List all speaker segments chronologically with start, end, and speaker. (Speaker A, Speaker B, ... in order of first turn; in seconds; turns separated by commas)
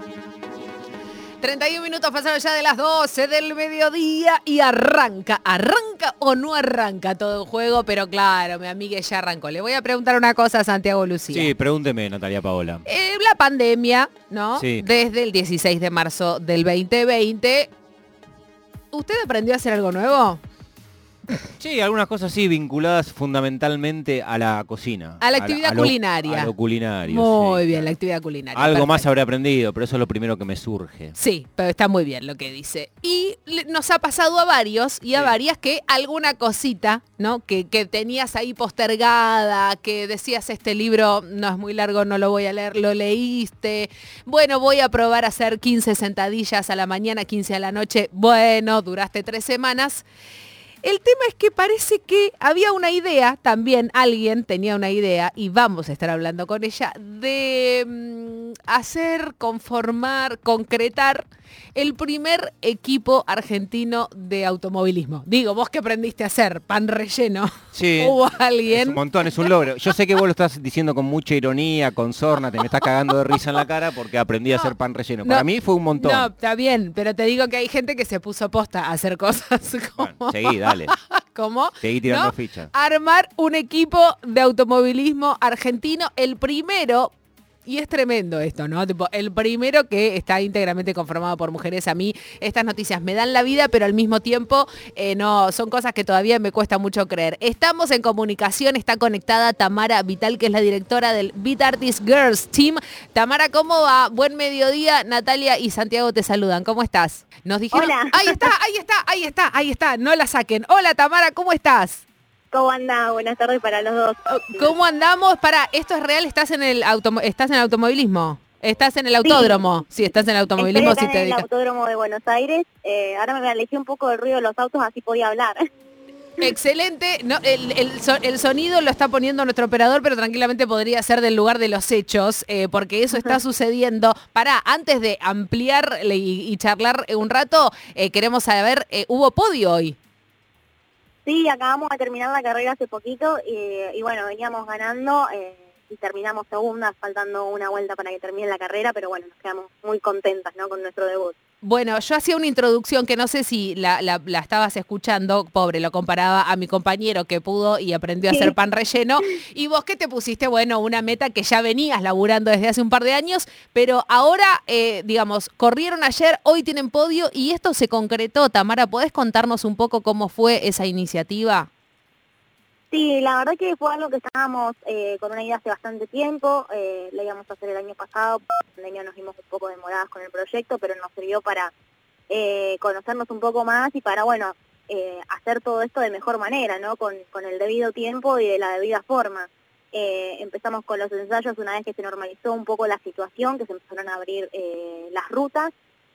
Speaker A: 1.4-11.5, Speaker B: 11.3-12.8, Speaker A: 12.9-17.7, Speaker B: 14.6-14.8, Speaker A: 18.9-20.4, Speaker B: 21.6-27.9, Speaker A: 25.2-26.5, Speaker A: 27.1-29.1, Speaker B: 28.5-31.1, Speaker A: 31.2-50.0, Speaker A: 50.8-69.0, Speaker B: 67.7-76.3, Speaker A: 75.2-87.1, Speaker B: 80.0-80.9, Speaker B: 81.8-82.7, Speaker A: 87.7-112.0, Speaker C: 107.7-108.5, Speaker C: 112.5-114.7, Speaker A: 114.3-121.5, Speaker C: 119.2-119.6, Speaker C: 120.6-125.6, Speaker A: 126.4-140.0, Speaker C: 141.3-151.4, Speaker A: 151.6-171.7, Speaker C: 172.9-181.7, Speaker C: 182.3-195.7